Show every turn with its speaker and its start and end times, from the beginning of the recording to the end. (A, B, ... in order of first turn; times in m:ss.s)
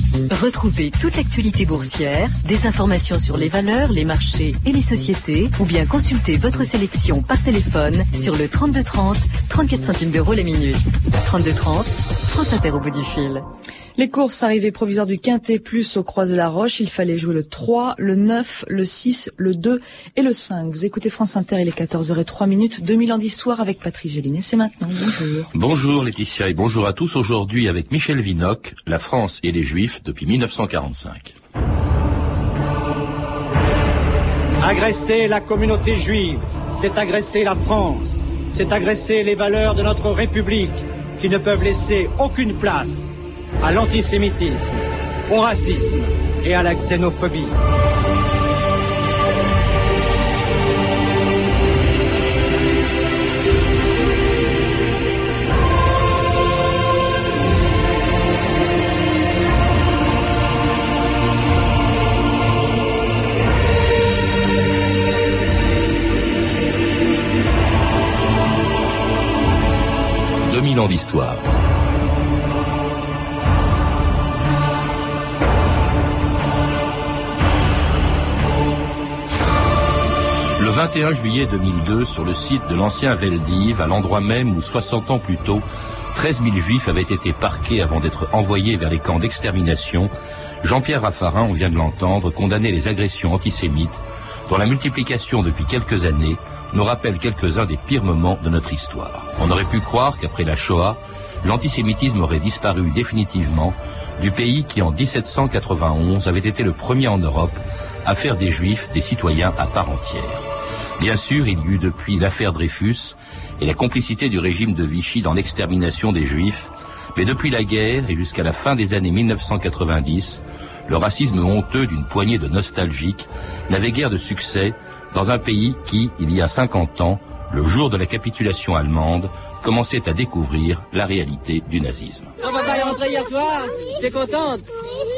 0:00.3-0:13.4 A
0:14.0-0:25.5 B
0:25.5-0:31.3 C
0:34.6-0:43.1 D
0:43.6-0:47.5 D
1:10.4-1:11.4 C
1:20.6-1:30.1 C
1:30.6-1:50.4 C
1:51.0-2:12.3 C
2:12.4-2:14.6 E